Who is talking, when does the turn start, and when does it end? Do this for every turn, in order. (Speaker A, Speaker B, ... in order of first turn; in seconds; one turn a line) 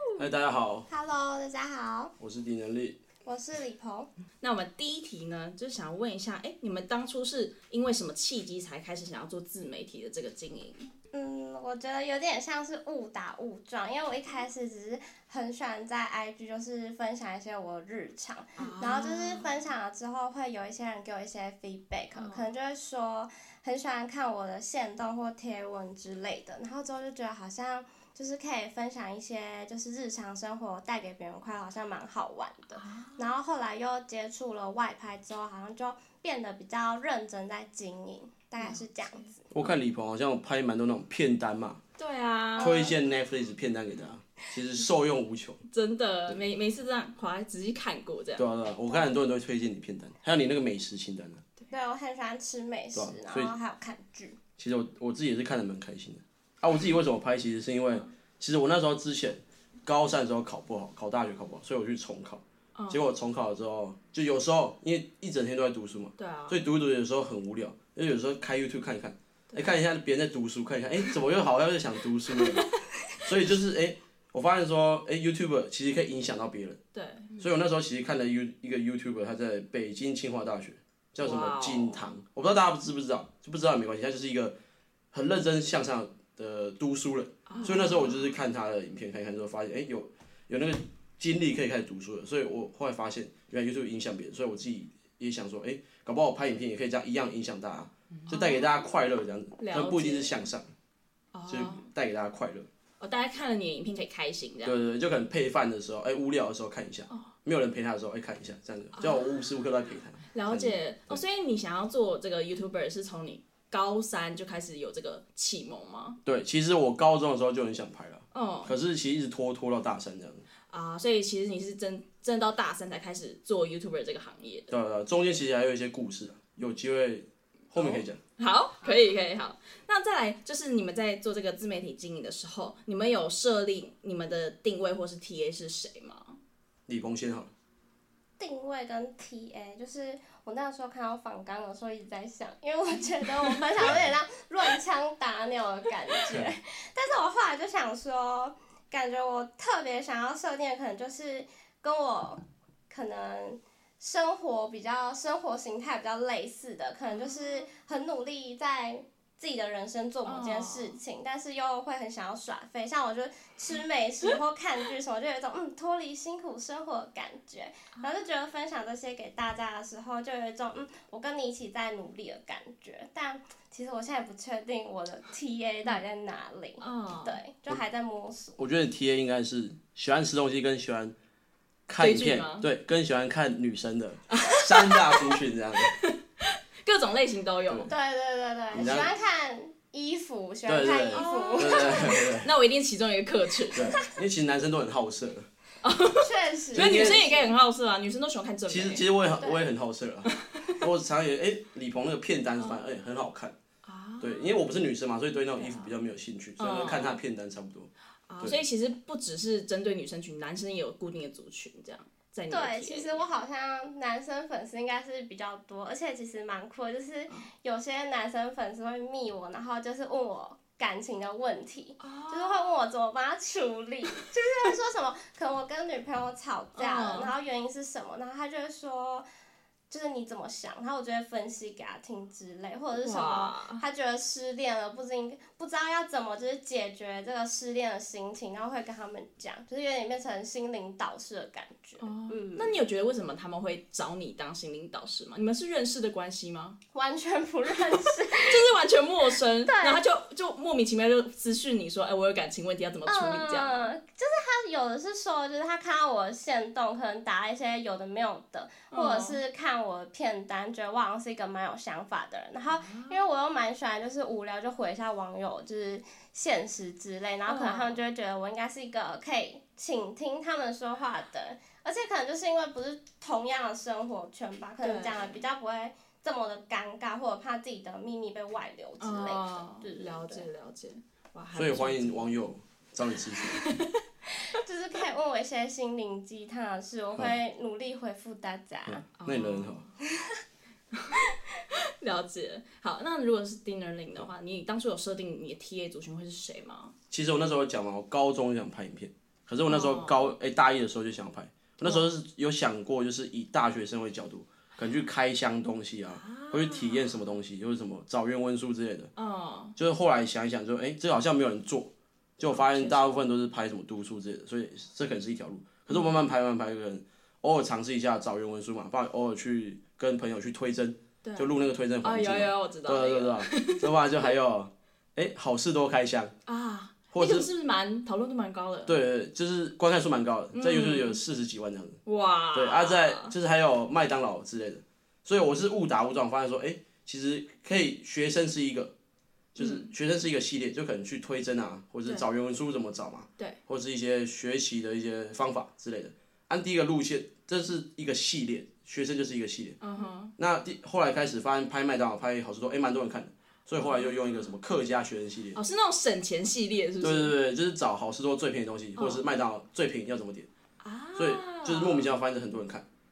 Speaker A: 0.2-0.9
Speaker B: 0.9-2.1
Speaker A: 2.2-3.0
Speaker B: 3.2-4.1
Speaker C: 4.4-10.9
Speaker B: 11.1-39.4
Speaker C: 18.6-19.5
Speaker C: 22.1-22.5
Speaker C: 32.8-33.3
Speaker C: 38.6-39.3
Speaker A: 39.5-41.8
Speaker C: 42.0-42.9
Speaker B: 42.6-42.9
Speaker A: 42.6-45.6
Speaker C: 45.7-48.5
Speaker A: 48.4-51.4
Speaker B: 51.7-54.4
Speaker A: 52.9-53.5
Speaker A: 54.6-76.8
Speaker C: 62.7-63.0
Speaker C: 66.2-66.6
Speaker C: 72.3-72.8
Speaker C: 76.9-77.3
Speaker A: 77.4-84.5
Speaker C: 81.2-82.1
Speaker A: 85.1-100.7
Speaker C: 87.5-88.2
Speaker C: 98.3-98.6
Speaker C: 99.6-100.4
Speaker C: 101.3-101.9
Speaker A: 101.5-102.7
Speaker C: 103.0-104.8
Speaker A: 104.6-111.2
Speaker C: 109.0-109.3
Speaker C: 110.3-116.2
Speaker A: 116.2-120.4
Speaker C: 118.3-118.7
Speaker C: 120.7-124.7
Speaker A: 124.7-128.2
Speaker C: 127.7-136.4
Speaker A: 136.9-137.5
Speaker B: 138.4-178.6
Speaker C: 157.1-157.6
Speaker C: 160.2-161.0
Speaker C: 176.8-177.4
Speaker A: 178.6-181.1
Speaker A: 181.9-185.9
Speaker C: 182.0-182.7
Speaker C: 184.3-187.9
Speaker B: 187.9-192.3
Speaker A: 188.7-189.1
Speaker A: 190.7-192.5
Speaker C: 191.1-193.9
Speaker A: 193.7-195.5
Speaker B: 193.8-194.1
Speaker C: 195.8-199.0
Speaker B: 196.2-197.5
Speaker A: 196.7-197.3
Speaker A: 198.7-200.3
Speaker B: 199.4-199.6
Speaker C: 200.2-200.9
Speaker A: 200.8-203.5
Speaker C: 203.8-204.6
Speaker A: 204.2-207.9
Speaker C: 205.5-205.9
Speaker C: 206.6-207.2
Speaker C: 208.3-213.2
Speaker B: 212.5-229.2
Speaker C: 222.0-222.7
Speaker C: 226.8-227.3
Speaker B: 229.9-242.8
Speaker C: 232.9-233.8
Speaker C: 242.0-246.8
Speaker B: 246.9-248.7
Speaker C: 247.9-253.9
Speaker B: 249.6-250.0
Speaker B: 253.1-280.4
Speaker C: 258.9-259.4
Speaker C: 262.7-263.2
Speaker C: 267.5-268.0
Speaker C: 274.8-275.3
Speaker C: 279.0-282.3
Speaker A: 281.5-283.6
Speaker C: 283.3-284.0
Speaker B: 284.4-289.0
Speaker A: 288.9-289.8
Speaker C: 289.2-289.9
Speaker C: 290.9-296.9
Speaker A: 297.1-309.1
Speaker C: 299.6-300.3
Speaker C: 301.8-302.1
Speaker C: 306.2-307.2
Speaker C: 309.1-309.8
Speaker A: 309.8-326.3
Speaker C: 312.5-313.2
Speaker C: 315.9-316.2
Speaker C: 321.2-324.0
Speaker C: 326.5-328.9
Speaker A: 327.1-327.5
Speaker A: 328.9-332.0
Speaker C: 330.5-331.2
Speaker C: 332.1-333.3
Speaker A: 332.5-338.9
Speaker A: 339.5-349.8
Speaker C: 339.6-339.9
Speaker C: 349.8-350.3
Speaker A: 350.4-355.6
Speaker C: 353.8-354.1
Speaker C: 355.5-357.4
Speaker A: 357.0-360.5
Speaker C: 359.0-359.2
Speaker C: 360.8-362.1
Speaker A: 361.1-362.8